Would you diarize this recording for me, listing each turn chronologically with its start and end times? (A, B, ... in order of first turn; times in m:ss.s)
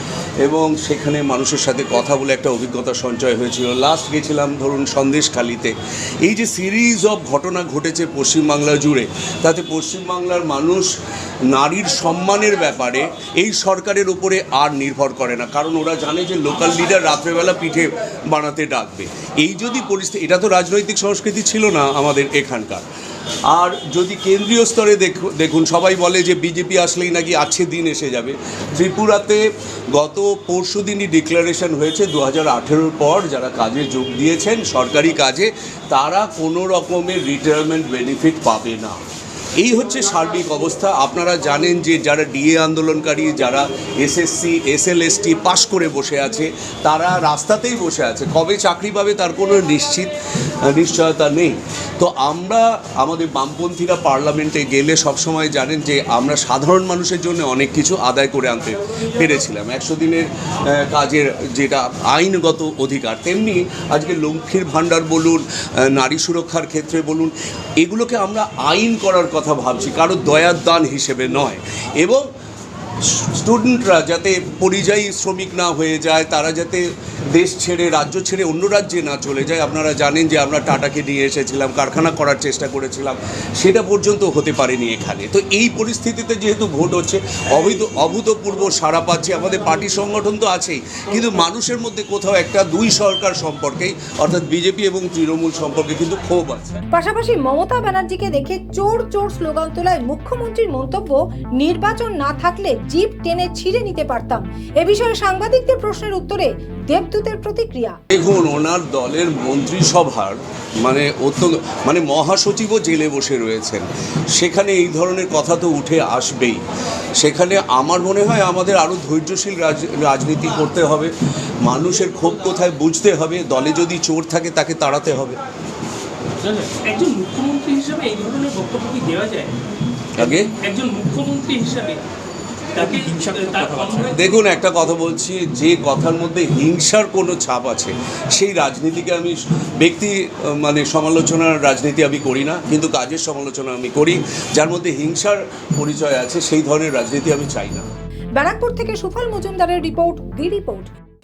0:00.4-0:10.9 A
0:11.5-0:22.9 A
0:23.5-0:39.0 A
0:39.6-1:12.2 A
1:13.0-1:36.8 A
1:36.9-1:48.0 B
1:48.1-1:56.6 A
1:57.2-2:05.4 A
2:06.4-2:09.6 C
2:10.2-2:10.5 A
2:10.2-2:12.0 C
2:12.7-2:14.2 C
2:14.1-2:27.9 A
2:28.4-2:30.9 B